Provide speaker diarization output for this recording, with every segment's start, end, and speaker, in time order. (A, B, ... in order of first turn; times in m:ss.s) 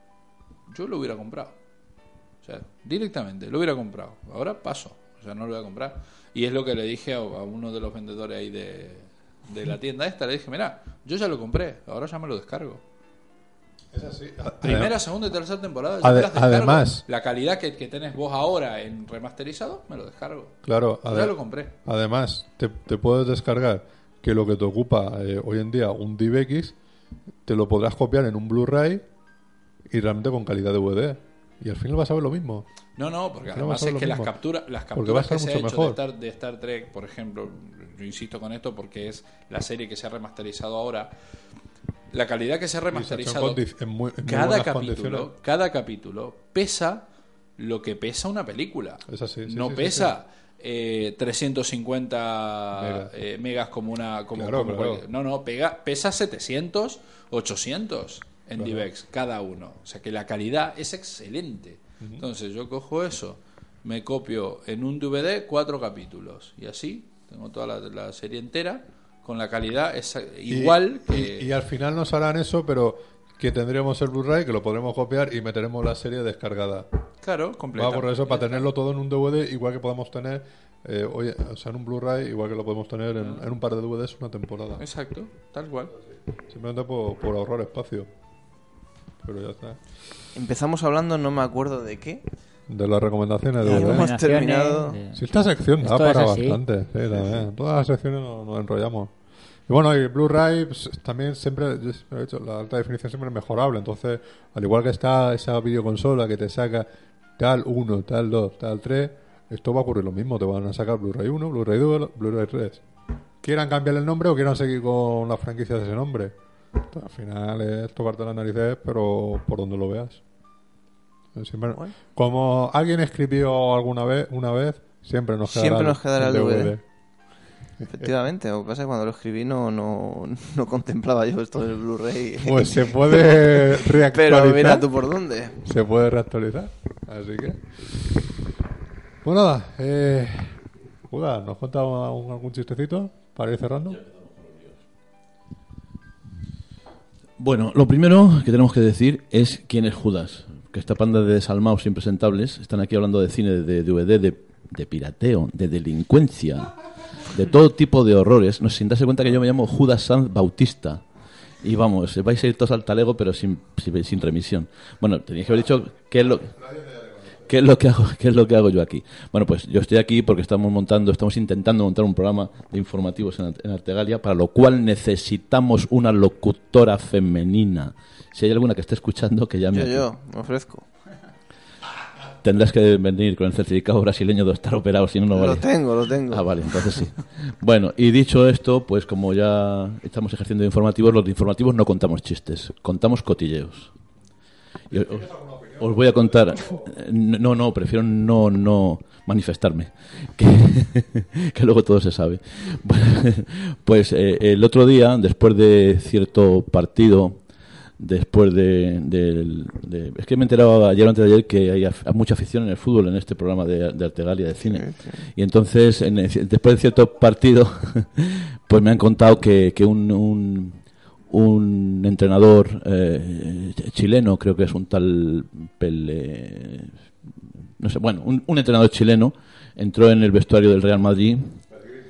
0:00.7-0:01.6 A
0:02.4-0:12.8 A
0:13.9-0:15.0 B
0:14.6-0:21.7 A
0:16.0-0:17.0 B
0:20.6-0:26.8 B
0:27.4-0:29.0 B
0:29.9-0:32.7 B
0:33.0-0:41.1 A
0:33.5-0:34.4 B
0:34.9-0:36.0 B
0:42.1-0:43.6 A
0:42.9-0:45.3 B
0:44.2-0:47.1 A
0:47.6-1:11.5 A
0:49.1-0:50.2 B
0:52.7-0:53.1 B
0:54.3-0:55.0 B
0:58.6-0:58.9 B
1:02.0-1:02.3 B
1:10.5-1:16.9 B
1:17.2-1:18.7 A
1:17.7-1:24.8 B
1:24.8-1:25.9 A
1:26.4-1:28.1 B
1:29.2-1:29.8 B
1:30.4-1:32.2 C
1:32.7-1:34.1 B
1:33.6-1:35.2 D
1:33.6-1:35.0 C
1:35.1-1:39.1 B
1:35.8-1:36.6 D
1:39.7-1:52.8 B
1:53.4-2:00.2 B
2:01.4-2:06.8 B
2:05.4-2:06.7 C
2:07.8-2:08.1 B
2:07.9-2:15.6 C
2:12.4-2:14.9 B
2:15.6-2:18.2 B
2:19.2-2:20.6 B
2:21.1-2:24.0 B
2:23.9-2:24.8 E
2:27.4-2:36.7 E
2:37.3-2:41.0 E
2:41.6-2:46.5 E
2:46.2-2:47.5 B
2:47.5-3:00.0 E
2:59.7-3:00.9 C
3:02.4-3:05.7 E
3:05.3-3:06.8 C
3:06.3-3:13.9 E
3:14.9-3:16.9 B
3:14.9-3:27.4 E
3:28.0-3:47.0 E
3:34.6-3:35.2 C
3:47.8-3:51.6 E